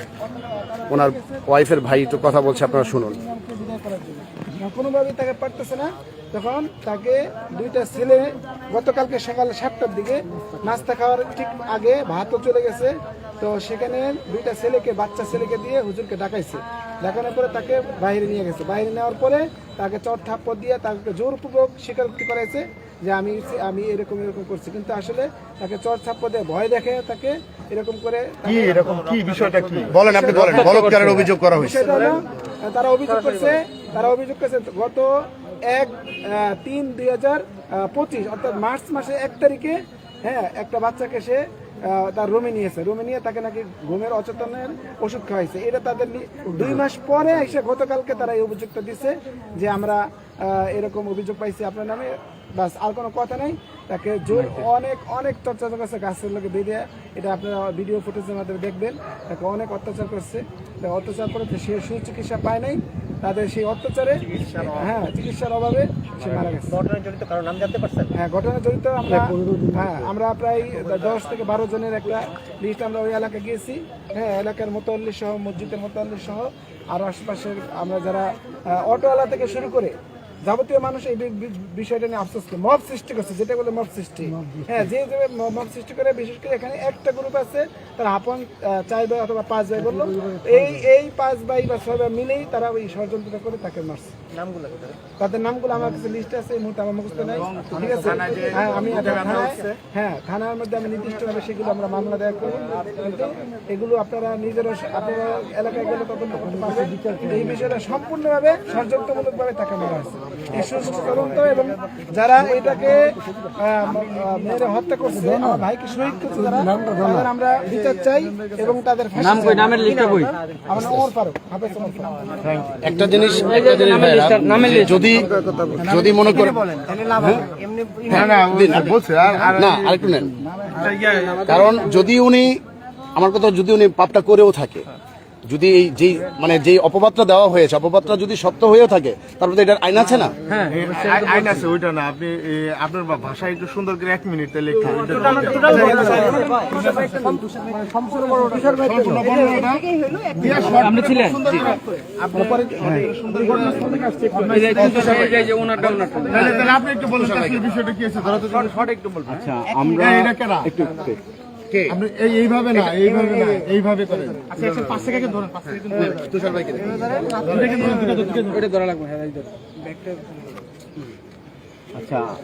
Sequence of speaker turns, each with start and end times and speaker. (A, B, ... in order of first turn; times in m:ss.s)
0:00.9-0:03.2 A
0:03.3-0:29.1 B
0:28.8-0:31.8 A
0:29.1-0:29.9 C
0:30.0-0:31.0 B
0:30.4-0:31.2 D
0:31.6-1:06.8 B
0:54.3-0:54.6 D
1:06.8-1:08.1 E
1:08.1-1:34.1 B
1:34.4-1:34.9 E
1:35.2-1:53.0 B
1:39.0-1:39.6 E
1:53.6-1:59.9 B
1:59.2-2:00.3 D
2:00.6-2:02.2 B
2:02.5-2:06.6 A
2:03.3-2:05.1 D
2:06.7-2:08.1 E
2:07.1-2:07.5 A
2:08.1-2:10.4 A
2:08.1-2:09.6 C
2:11.0-2:11.3 E
2:11.4-2:12.6 A
2:13.2-2:14.9 A
2:15.5-2:20.3 A
2:20.5-2:20.8 D
2:20.8-2:26.2 C
2:25.2-2:26.4 D
2:28.7-2:31.8 C
2:30.6-2:31.5 D
2:32.3-2:34.2 B
2:34.3-2:36.6 D
2:34.6-2:35.1 C
2:36.3-2:38.8 C
2:37.1-2:37.6 A
2:39.2-2:41.2 F
2:40.0-2:40.7 C
2:41.7-2:42.0 A
2:41.9-2:44.9 C
2:44.7-2:45.0 A
2:45.9-2:47.8 A
2:47.5-2:48.3 C
2:47.5-2:49.5 D
2:51.9-2:52.2 F